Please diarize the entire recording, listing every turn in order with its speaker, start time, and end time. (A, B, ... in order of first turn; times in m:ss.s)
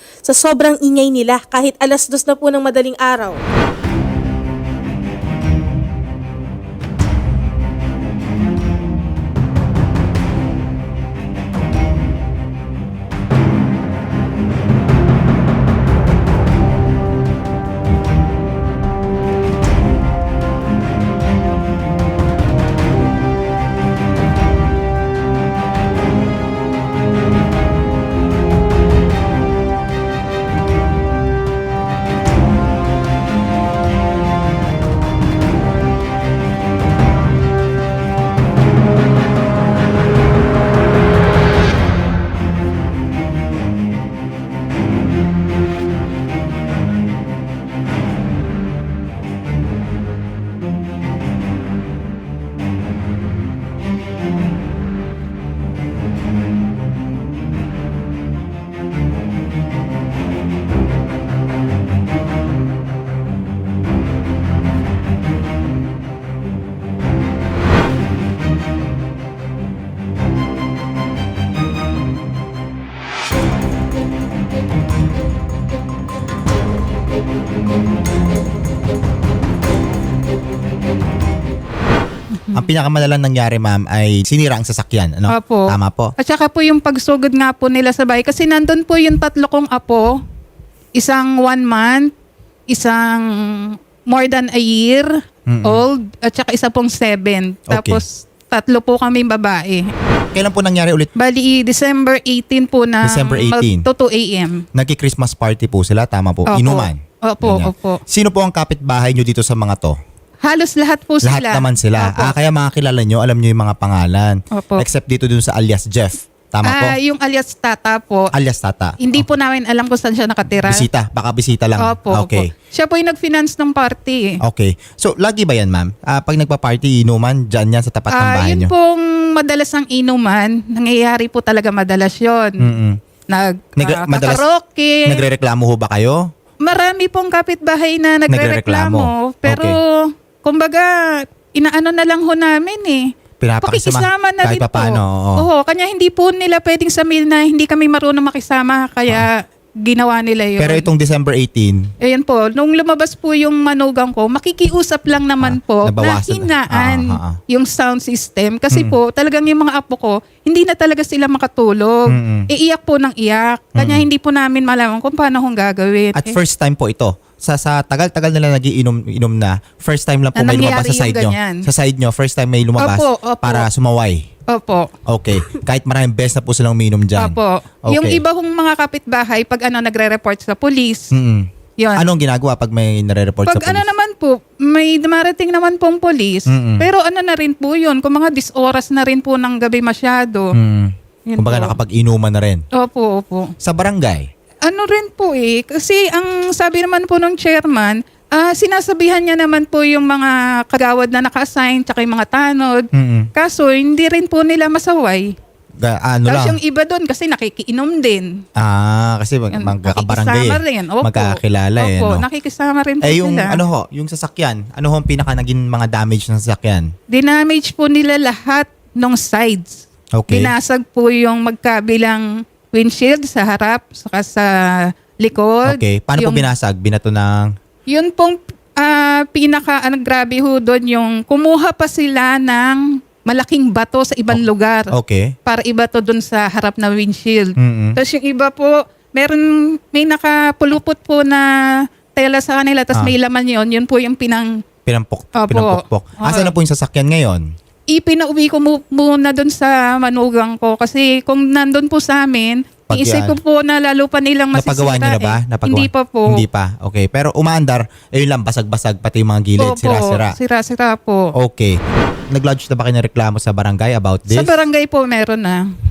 0:00.3-0:03.4 A
1:22.3-1:22.6 B
1:22.5-1:26.1 C
1:25.3-1:30.1 B
1:31.0-1:32.1 B
1:32.7-1:35.1 B
1:35.5-1:35.8 C
1:35.6-1:39.9 B
1:37.7-1:38.0 C
1:40.3-1:41.1 C
1:41.2-1:44.6 B
1:43.0-1:43.9 C
1:44.8-1:50.0 C
1:46.5-1:48.0 B
1:50.4-1:52.3 B
1:51.2-1:57.0 C
1:54.5-1:54.8 B
1:56.6-1:58.3 B
1:58.3-1:59.2 C
1:59.0-2:00.9 B
2:00.7-2:02.5 C
2:01.8-2:04.4 B
2:04.4-2:08.7 C
2:08.1-2:12.7 B
2:12.6-2:13.0 C
2:13.3-2:15.2 B
2:13.8-2:14.4 C
2:15.1-2:16.2 C
2:16.6-2:19.9 B
2:18.3-2:19.8 C
2:20.4-2:23.1 B
2:23.4-2:25.5 C
2:23.6-2:30.9 B
2:30.6-2:31.8 C
2:32.0-2:46.4 B
2:35.4-2:37.4 C
2:38.7-2:39.0 C
2:42.1-2:42.5 C
2:43.8-2:44.1 C
2:46.2-2:54.3 C
2:50.4-2:51.6 B
2:52.8-2:53.7 B
2:54.5-2:54.9 B
2:55.1-2:58.2 C
2:57.2-3:01.1 B
3:01.1-3:03.9 C
3:01.8-3:02.0 B
3:03.5-3:10.5 B
3:06.5-3:06.9 C
3:10.5-3:12.6 C
3:11.3-3:11.7 B
3:12.8-3:13.5 B
3:13.6-3:14.3 C
3:14.7-3:25.3 B
3:22.9-3:23.3 C
3:25.8-3:26.6 C
3:26.3-3:28.3 B
3:28.6-3:32.2 C
3:29.5-3:33.6 B
3:33.0-3:36.9 C
3:37.1-3:44.5 B
3:40.2-3:40.5 C
3:45.2-3:46.4 B
3:45.7-3:47.5 C
3:47.9-3:54.9 B
3:54.3-3:55.4 C
3:55.5-4:01.5 B
3:57.6-3:58.0 C
4:02.2-4:04.5 B
4:04.9-4:07.4 C
4:05.4-4:06.5 B
4:07.9-4:16.4 B
4:12.9-4:13.4 C
4:14.6-4:20.4 C
4:19.6-4:21.3 B
4:21.4-4:21.8 C
4:22.3-4:24.5 C
4:24.3-4:25.6 B